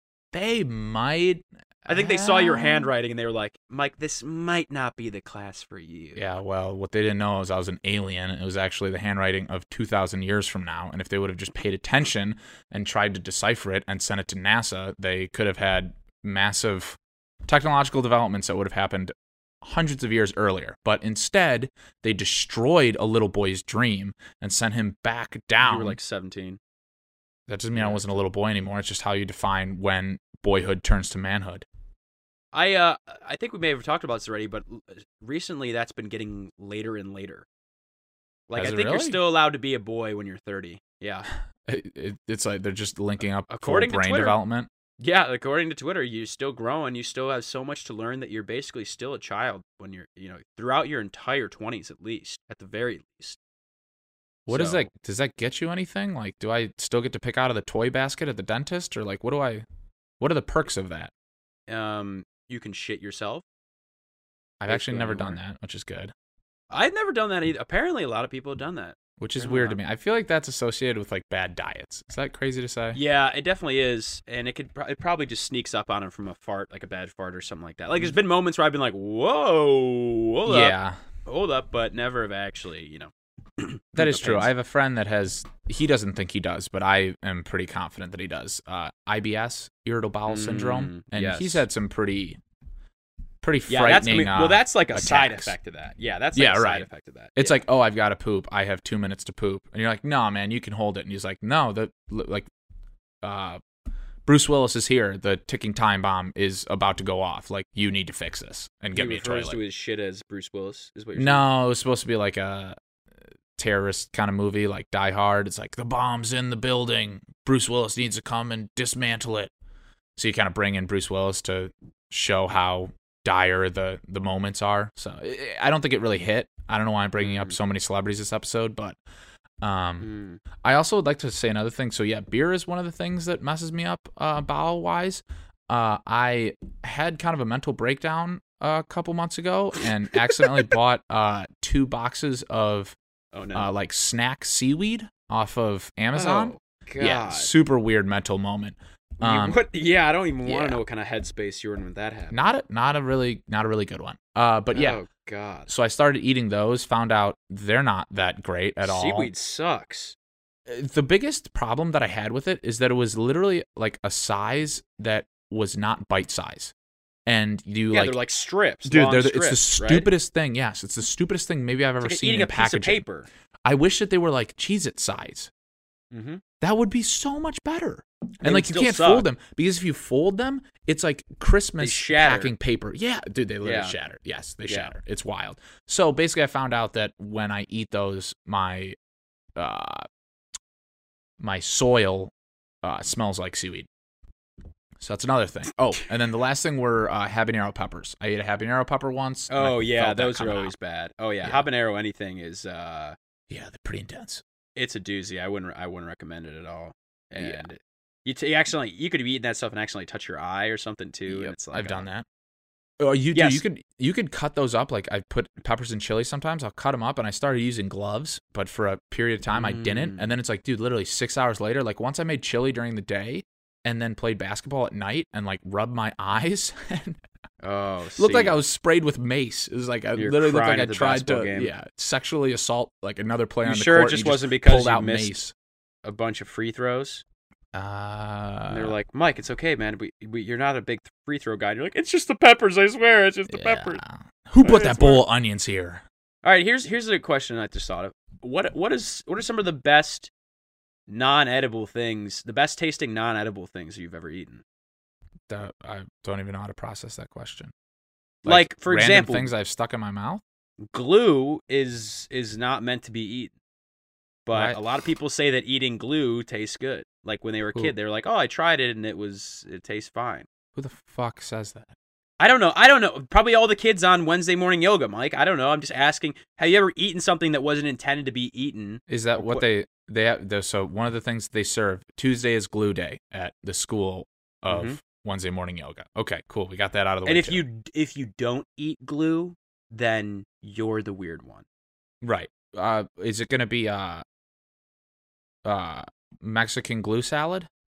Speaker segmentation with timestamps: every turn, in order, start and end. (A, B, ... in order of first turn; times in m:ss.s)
0:00.3-0:02.9 A
0:01.9-0:06.2 B
0:06.1-0:26.0 A
0:25.6-0:26.6 B
0:27.5-0:31.6 A
0:27.7-0:28.2 B
0:32.5-0:37.4 B
0:38.5-0:41.3 B
0:38.6-0:39.2 A
0:41.6-0:44.7 A
0:43.5-0:44.4 B
0:45.0-0:53.4 B
0:54.5-0:59.6 A
0:54.5-0:54.9 B
1:00.2-1:01.1 A
1:01.7-1:03.4 B
1:04.6-1:06.1 A
1:04.7-1:05.4 B
1:06.7-1:09.8 B
1:09.2-1:13.0 A
1:12.9-1:24.5 B
1:20.5-1:21.0 A
1:24.0-1:32.4 A
1:30.3-1:31.6 B
1:33.4-1:35.5 A
1:33.7-1:37.6 B
1:36.3-1:42.5 A
1:43.2-1:43.6 A
1:44.2-1:49.6 A
1:48.9-1:51.4 B
1:51.1-1:52.8 A
1:53.6-1:59.5 A
2:00.2-2:09.0 A
2:07.2-2:07.6 B
2:09.6-2:23.0 A
2:10.0-2:10.4 B
2:23.3-2:23.7 B
2:23.5-2:29.6 A
2:26.1-2:27.5 B
2:29.2-2:32.4 B
2:30.4-2:30.8 A
2:32.3-2:35.0 A
2:34.7-2:35.7 B
2:35.7-2:39.3 A
2:38.8-2:40.2 B
2:40.7-2:46.7 A
2:47.2-2:48.2 A
2:47.9-2:50.1 B
2:48.8-2:53.0 A
2:52.0-2:53.3 B
2:53.6-2:55.5 A
2:56.1-2:56.4 B
2:56.6-3:09.0 A
2:58.4-2:59.3 B
3:01.8-3:02.5 B
3:03.6-3:04.0 B
3:04.7-3:04.9 B
3:09.6-3:10.1 A
3:11.4-3:12.3 A
3:12.8-3:13.9 A
3:15.0-3:20.7 A
3:19.5-3:23.2 B
3:23.5-3:24.4 A
3:24.8-3:32.1 B
3:27.4-3:27.7 A
3:31.3-3:32.2 A
3:33.0-3:47.2 A
3:33.3-3:33.6 B
3:39.5-3:40.3 B
3:47.6-3:48.6 B
3:48.2-3:55.5 A
3:50.1-3:51.7 B
3:53.6-3:55.4 B
3:56.0-3:57.2 B
3:57.7-3:58.9 A
3:58.7-4:04.0 B
4:03.5-4:06.0 A
4:04.6-4:05.2 B
4:06.4-4:10.3 B
4:11.1-4:14.6 B
4:15.5-4:17.7 A
4:18.4-4:19.5 B
4:18.4-4:20.4 A
4:20.9-4:23.5 B
4:24.4-4:30.5 B
4:24.5-4:24.8 A
4:30.7-4:31.9 A
4:32.4-4:39.7 B
4:39.1-4:47.6 A
4:44.7-4:45.0 B
4:47.2-4:51.6 B
4:52.2-4:54.2 A
4:55.6-4:57.7 A